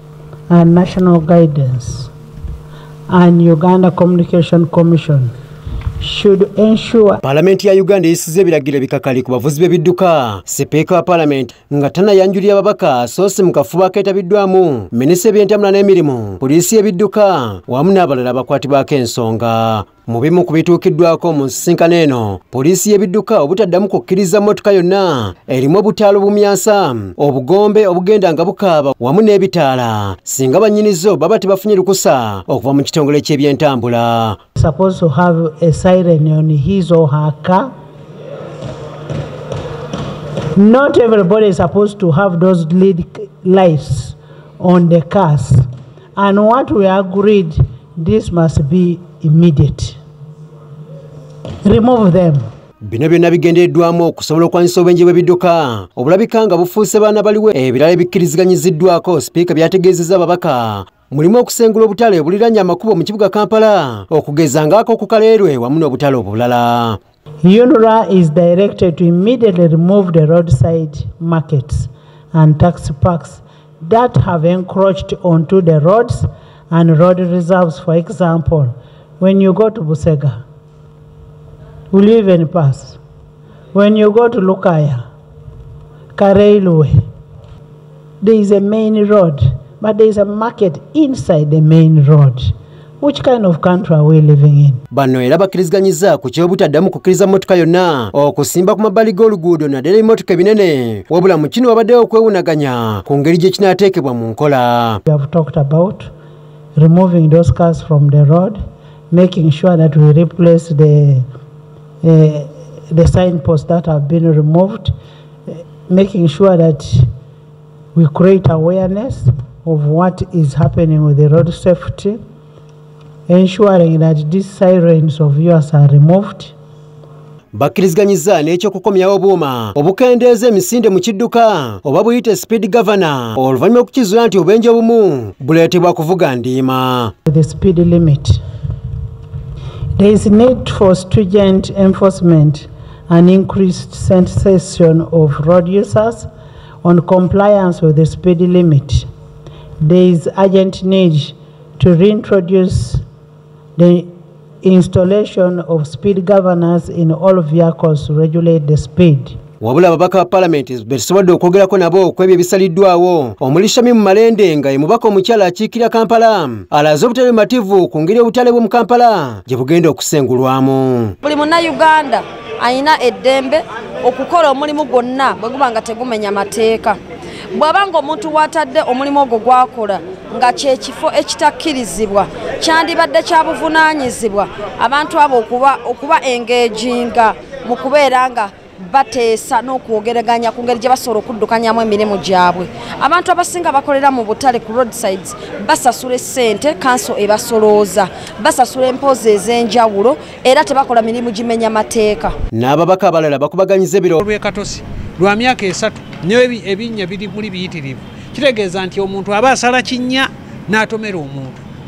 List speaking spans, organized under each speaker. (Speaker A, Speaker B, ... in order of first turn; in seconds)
Speaker A: 0.5-2.1, 3.1-5.3, 6.0-7.2, 34.5-37.7, 40.5-45.6, 46.2-50.0, 51.6-52.5, 67.4-80.4, 81.9-83.0, 83.7-85.0, 86.1-87.0, 88.2-94.8, 105.1-106.1, 106.8-108.6, 109.1-111.2, 112.0-114.9, 115.5-117.1, 118.0-122.2, 123.3-126.5, 137.2-138.4, 139.9-146.3, 146.8-149.1, 149.8-153.0, 153.8-154.1, 154.6-159.3
Speaker B: 7.2-34.4, 52.8-67.0, 94.9-105.0, 127.5-137.1, 159.6-171.1, 202.5-204.2
Speaker C: 171.2-177.0, 177.5-202.3
Speaker D: 204.2-211.6